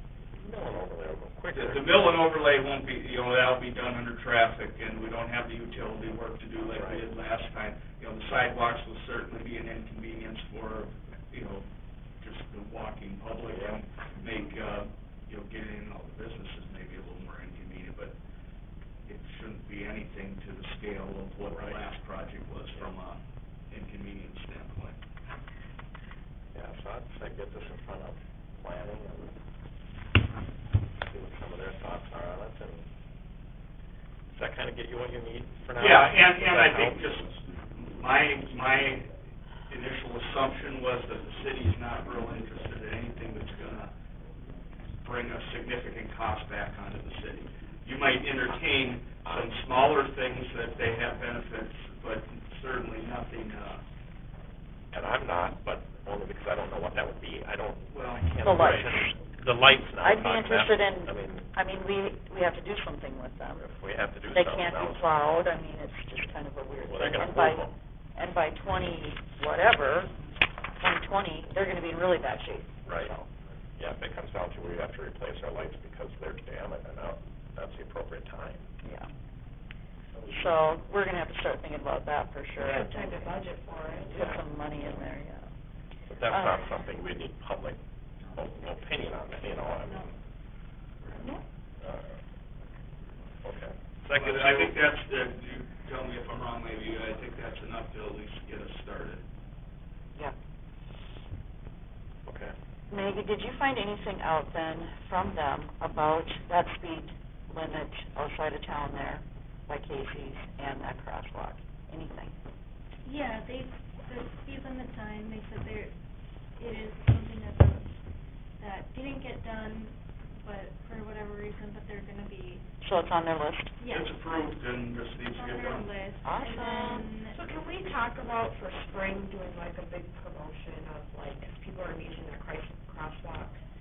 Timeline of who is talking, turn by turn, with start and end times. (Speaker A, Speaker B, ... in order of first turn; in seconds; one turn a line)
Speaker A: 0.3-1.9
Speaker B: 1.5-11.7
Speaker A: 6.8-7.0
Speaker B: 12.2-18.1
Speaker A: 13.4-13.8
Speaker B: 19.1-23.2
Speaker A: 21.4-21.8
Speaker B: 23.7-24.9
Speaker A: 26.5-29.4
Speaker A: 30.9-32.8
Speaker A: 34.3-37.3
Speaker B: 35.8-39.1
Speaker B: 39.7-43.9
Speaker B: 45.0-53.8
Speaker A: 49.2-49.5
Speaker A: 54.9-61.5
Speaker B: 57.9-58.3
Speaker C: 58.4-59.2
Speaker C: 60.0-63.6
Speaker A: 63.6-65.2
Speaker C: 64.3-70.1
Speaker A: 66.9-67.7
Speaker C: 70.8-73.3
Speaker A: 72.8-73.1
Speaker A: 73.8-78.6
Speaker C: 78.8-79.1
Speaker C: 80.3-83.3
Speaker D: 82.5-84.5
Speaker C: 84.0-85.5
Speaker A: 86.1-87.8
Speaker C: 86.3-86.7
Speaker A: 88.3-90.1
Speaker A: 91.8-92.2
Speaker A: 93.4-94.8
Speaker B: 94.0-99.2
Speaker A: 102.2-102.5
Speaker C: 102.9-112.3
Speaker E: 113.0-115.9
Speaker E: 116.5-117.9
Speaker E: 118.6-122.6
Speaker C: 122.8-123.8
Speaker E: 123.8-124.2
Speaker B: 123.9-126.0
Speaker E: 125.3-127.4
Speaker C: 126.2-127.1
Speaker D: 127.3-133.6